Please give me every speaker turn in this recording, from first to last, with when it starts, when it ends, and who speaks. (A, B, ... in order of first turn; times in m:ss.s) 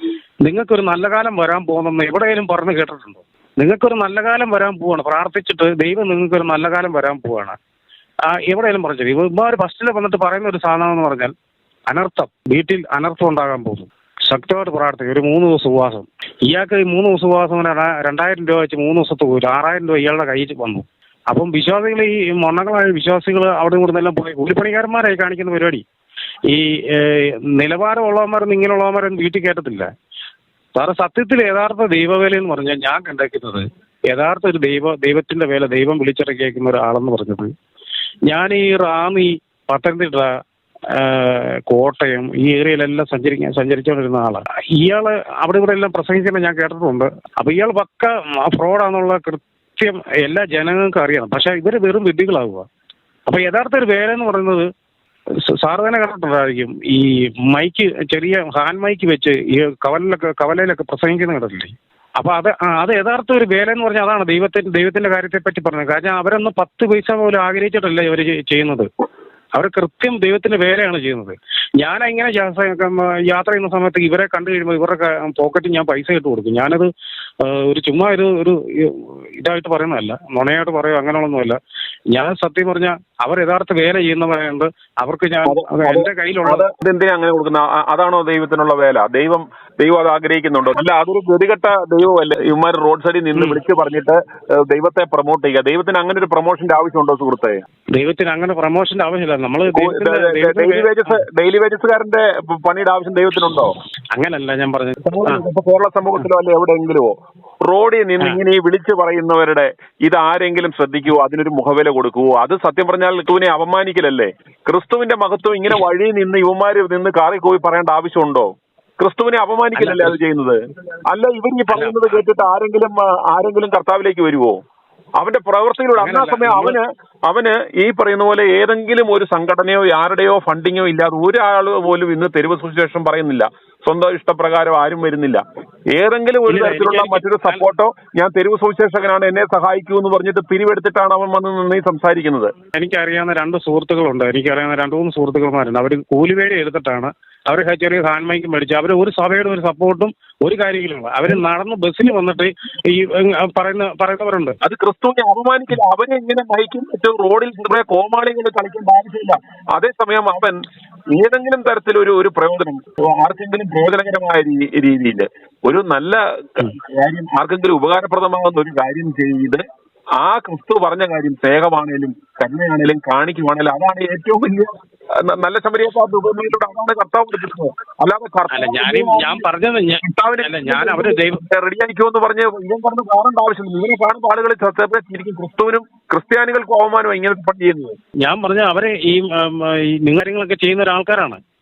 0:00.4-0:07.6 A
0:08.3-0:11.3 A
0:11.9-0:25.8 A
0:26.5-0:29.9 A
0:30.8-0:37.5 A
0:38.3-0:40.3 A
0:40.9-0:52.7 A
0:53.3-0:54.7 A
0:55.5-1:08.9 A
1:09.5-1:16.9 A
1:17.4-1:21.6 A
1:22.1-1:26.6 A
1:25.5-1:37.6 B
1:37.9-1:41.2 A
1:39.7-1:43.8 B
1:44.1-1:45.4 A
1:45.0-2:04.6 B
1:59.8-2:00.2 A
2:01.7-2:02.2 A
2:05.2-2:22.5 B
2:06.0-2:06.8 A
2:16.5-2:17.6 A
2:22.7-2:34.6 A
2:34.6-2:49.6 B
2:50.2-2:59.4 B
2:58.5-3:01.4 A
3:00.0-3:08.0 B
3:08.2-3:11.4 A